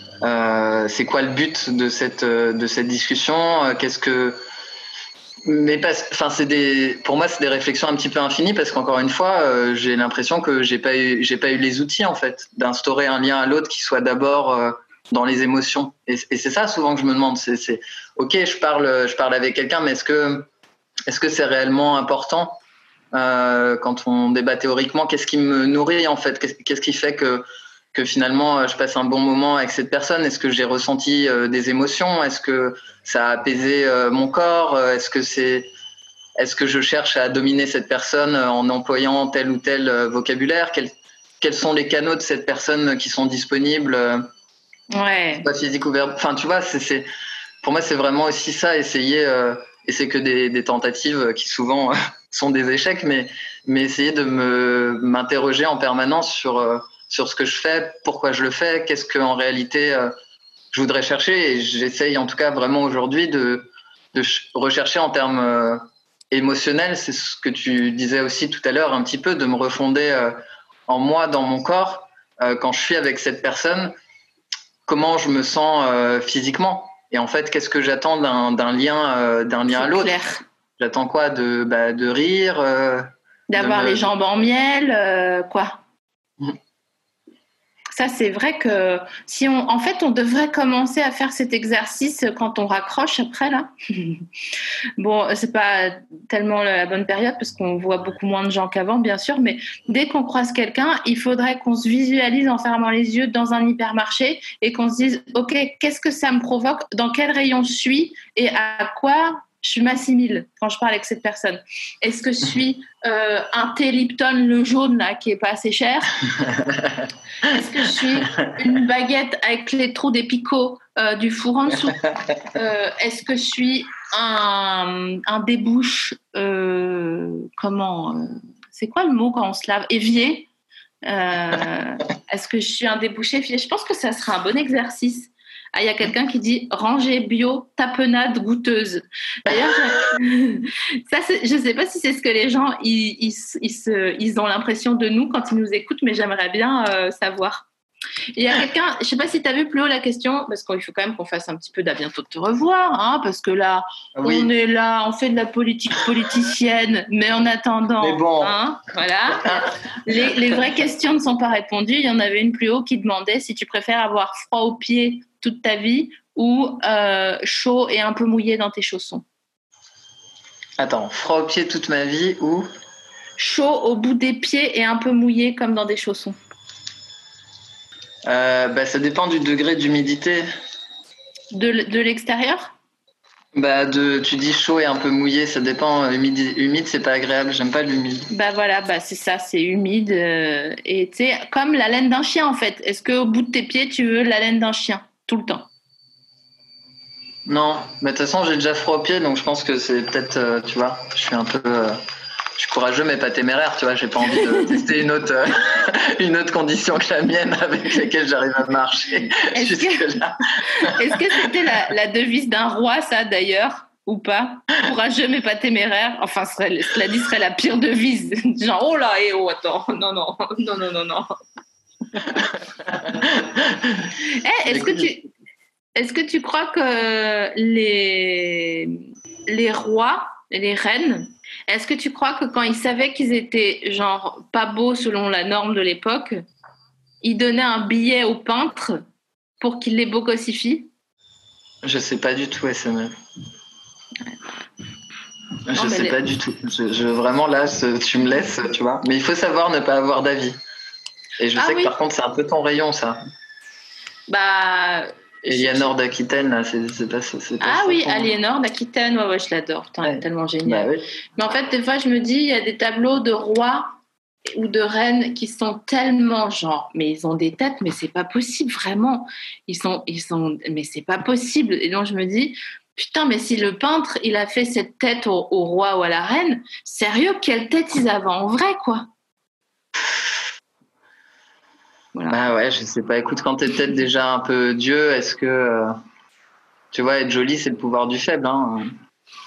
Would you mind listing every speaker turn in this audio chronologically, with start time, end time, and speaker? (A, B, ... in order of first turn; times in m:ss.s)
0:00.2-0:04.4 A
0:05.4-0:20.5 A
0:21.1-0:22.6 A
0:23.1-0:35.7 A
0:36.4-0:44.3 A
0:44.9-0:45.5 B
0:45.4-0:47.1 A
0:47.6-1:00.1 A
1:00.7-1:13.9 A
1:14.9-1:20.2 A
1:19.7-1:20.4 B
1:20.8-1:24.1 A
1:23.5-1:25.8 B
1:27.9-1:34.2 B
1:35.0-1:56.2 B
1:56.4-1:57.0 A
1:57.4-2:10.5 B
2:11.0-2:27.7 B
2:28.4-2:49.2 B
2:34.2-2:34.5 A
2:38.0-2:38.6 A
2:50.8-2:52.7 A
2:53.4-2:56.4 B
2:58.3-3:00.5 A
3:01.5-3:02.7 B
3:03.6-3:08.3 A
3:08.3-3:15.7 B
3:17.5-3:22.0 A
3:22.6-3:31.5 A
3:24.4-3:24.8 B
3:29.5-3:30.1 B
3:30.8-3:41.4 B
3:42.9-3:44.1 A
3:44.4-3:45.3 B
3:44.7-3:45.1 A
3:46.0-3:56.4 B
3:57.2-3:59.0 B
3:59.6-4:00.9 B
4:01.8-4:03.2 A
4:05.7-4:10.6 A
4:05.8-4:06.2 B
4:11.4-4:13.2 A
4:11.6-4:12.0 B
4:14.3-4:16.0 B
4:15.5-4:18.3 A
4:17.6-4:24.0 B
4:20.0-4:21.0 A
4:24.5-4:39.1 B
4:42.2-4:42.4 B
4:42.3-4:45.9 A
4:46.9-4:48.9 A